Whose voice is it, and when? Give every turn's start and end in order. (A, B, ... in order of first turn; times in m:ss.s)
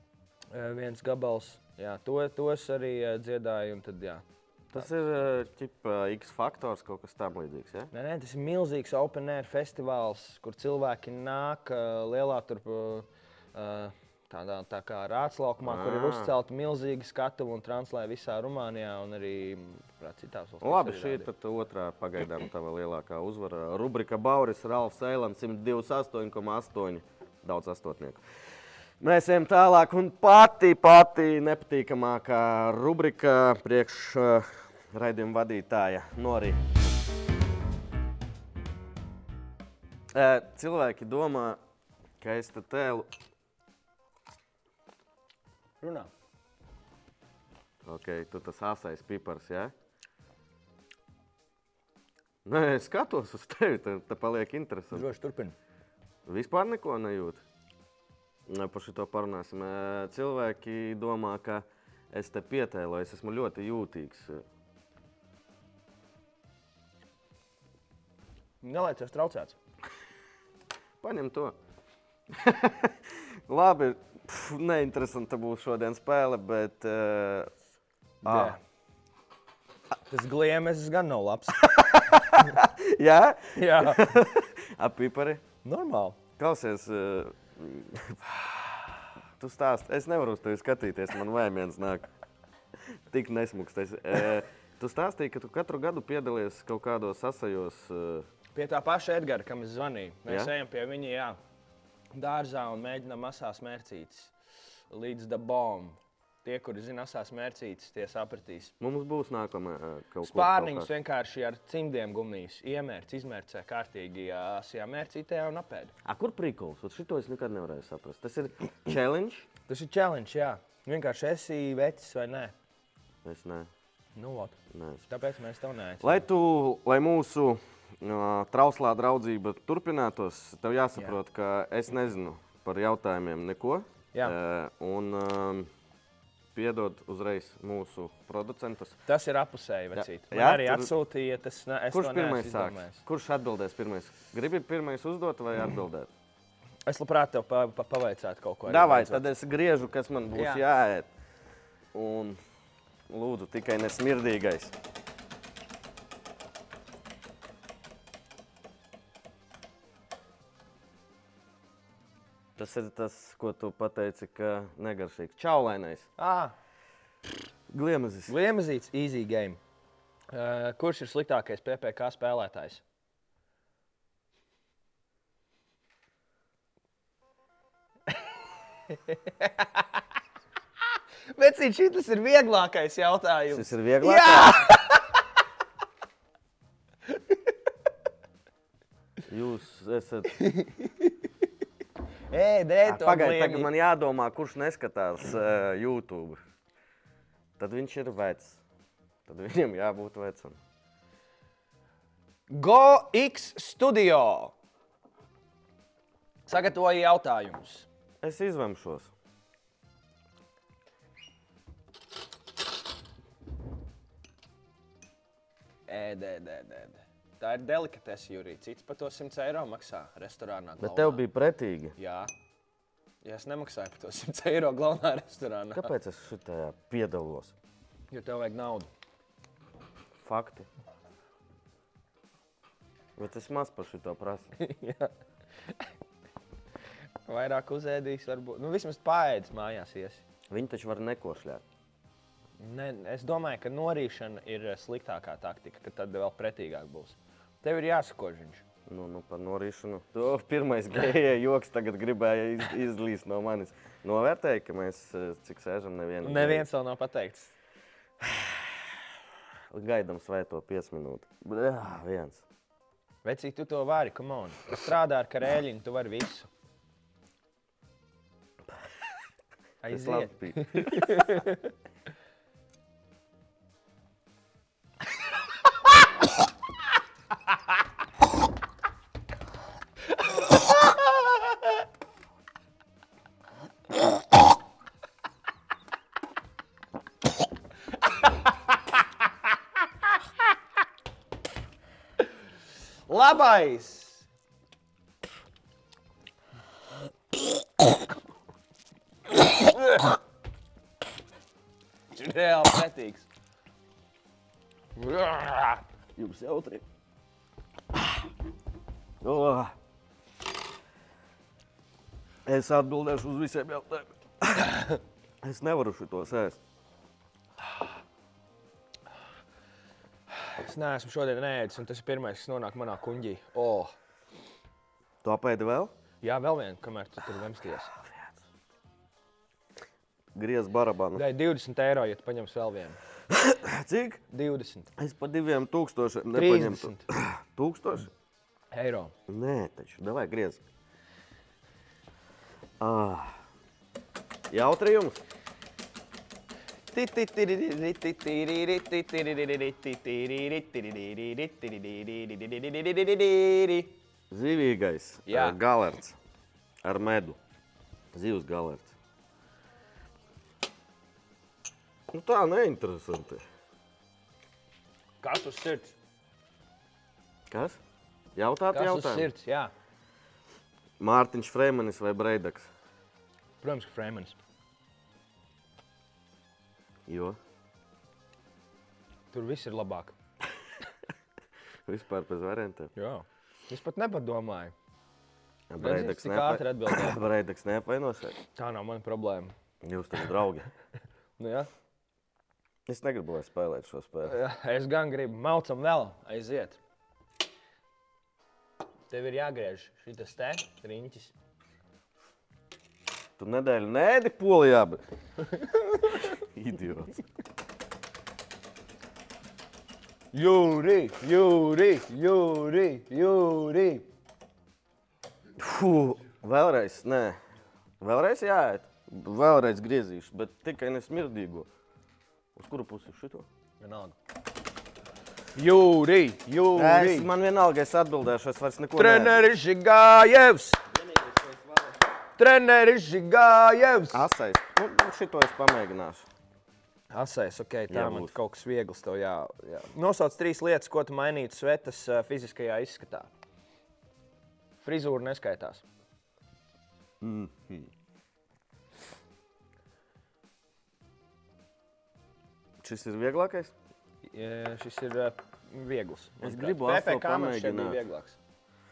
0:00.5-0:04.9 A
0:04.7-0:07.9 B
0:07.9-0:21.3 A
0:15.6-0:16.3 B
0:20.6-0:28.2 B
0:29.0-0:36.9 B
0:40.1-0:41.6 B
0:42.2-0:43.1 B
0:45.8-0:46.1 A
0:47.8-0:49.7 B
0:52.4-0:55.1 B
0:54.9-0:55.5 A
0:56.2-0:57.4 B
0:58.5-1:04.4 B
1:08.6-1:09.6 A
1:11.0-1:11.6 B
1:12.3-1:17.5 B
1:18.2-1:18.6 A
1:18.2-1:18.6 B
1:20.1-1:21.6 A
1:21.6-1:25.4 B
1:23.5-1:24.0 A
1:25.6-1:26.2 A
1:26.4-1:28.2 B
1:29.4-1:32.1 B
1:33.1-1:38.3 B
1:38.5-1:41.4 A
1:40.3-1:40.5 B
1:42.1-1:44.3 A
1:44.9-1:48.7 A
1:48.8-1:50.9 B
1:50.2-1:55.9 A
1:56.0-1:59.5 B
1:59.7-2:02.5 A
2:03.2-2:03.7 B
2:04.2-2:06.2 A
2:04.7-2:05.0 B
2:06.0-2:15.7 B
2:16.5-2:19.0 B
2:19.1-2:23.0 A
2:19.9-2:20.9 B
2:21.9-2:26.1 B
2:26.8-2:29.3 A
2:28.7-2:31.1 B
2:30.3-2:30.6 A
2:31.9-2:32.4 B
2:33.1-2:34.7 B
2:42.6-2:46.1 B
2:46.2-2:46.5 A
2:47.7-2:48.3 B
2:48.3-2:49.6 A
2:50.3-2:52.8 A
2:58.9-2:59.8 A
3:01.3-3:05.2 A
3:03.5-3:04.7 B
3:09.3-3:10.4 B
3:10.4-3:11.1 A
3:12.3-3:13.7 A
3:12.8-3:16.4 B
3:17.6-3:18.6 B
3:19.2-3:20.6 B
3:22.5-3:24.5 A
3:26.5-3:27.9 A
3:28.2-3:29.1 B
3:35.9-3:41.2 A
3:40.8-3:41.9 B
3:42.0-3:42.3 A
3:43.2-3:45.9 A
3:45.8-3:47.5 B
3:48.1-3:48.9 A
3:50.2-3:50.7 B
3:53.2-3:54.5 B
3:54.6-3:55.1 A
3:57.2-4:00.2 A
4:00.5-4:01.6 B
4:02.6-4:08.6 A
4:08.8-4:16.7 B
4:16.2-4:17.5 A
4:19.7-4:22.4 B
4:23.2-4:26.5 A
4:29.8-4:31.6 A
4:29.9-4:31.2 B
4:53.1-4:54.2 A
5:02.1-5:03.2 A
5:05.0-5:05.8 A
5:06.2-5:06.8 B
5:09.2-5:09.7 B
5:12.4-5:14.8 B
5:15.4-5:16.6 B
5:20.4-5:23.9 A
5:25.2-5:25.9 B
5:26.2-5:28.0 A
5:30.3-5:31.2 B
5:31.2-5:33.0 A
5:33.3-5:34.2 B
5:34.3-5:34.9 A
5:35.0-5:38.1 B
5:36.3-5:37.0 A
5:38.7-5:39.1 A
5:39.3-5:40.6 B
5:42.8-5:43.4 B
5:44.5-5:45.2 B
5:46.9-5:53.9 A
5:54.3-5:56.2 B
5:55.3-5:55.6 A
5:56.8-5:57.4 B
5:58.1-5:58.9 B
6:02.1-6:03.4 B
6:05.2-6:05.9 A
6:07.5-6:07.8 B
6:08.4-6:09.3 B
6:08.7-6:09.7 A
6:11.0-6:12.7 B
6:13.6-6:14.4 A
6:17.1-6:17.4 B
6:19.3-6:20.2 A
6:21.8-6:22.9 B
6:23.0-6:24.7 A
6:25.7-6:28.3 B
6:25.8-6:27.2 A
6:28.5-6:29.5 A
6:29.8-6:30.7 B
6:31.4-6:31.7 A
6:32.9-6:34.4 B
6:34.2-6:36.8 A
6:39.1-6:41.3 A
6:43.4-6:45.0 B
6:46.2-6:47.2 B
6:50.3-6:54.1 A
6:55.6-6:57.4 B
6:58.0-7:01.7 B
7:02.5-7:03.5 B
7:03.8-7:04.1 A
7:05.5-7:07.3 A
7:06.7-7:09.5 B
7:09.0-7:10.8 A
7:12.4-7:14.2 A
7:14.1-7:16.2 B
7:17.1-7:23.3 A
7:17.9-7:18.3 B
7:24.8-7:25.8 A
7:27.2-7:27.9 B
7:32.8-7:33.7 B
7:34.2-7:38.4 A
7:36.4-7:38.0 B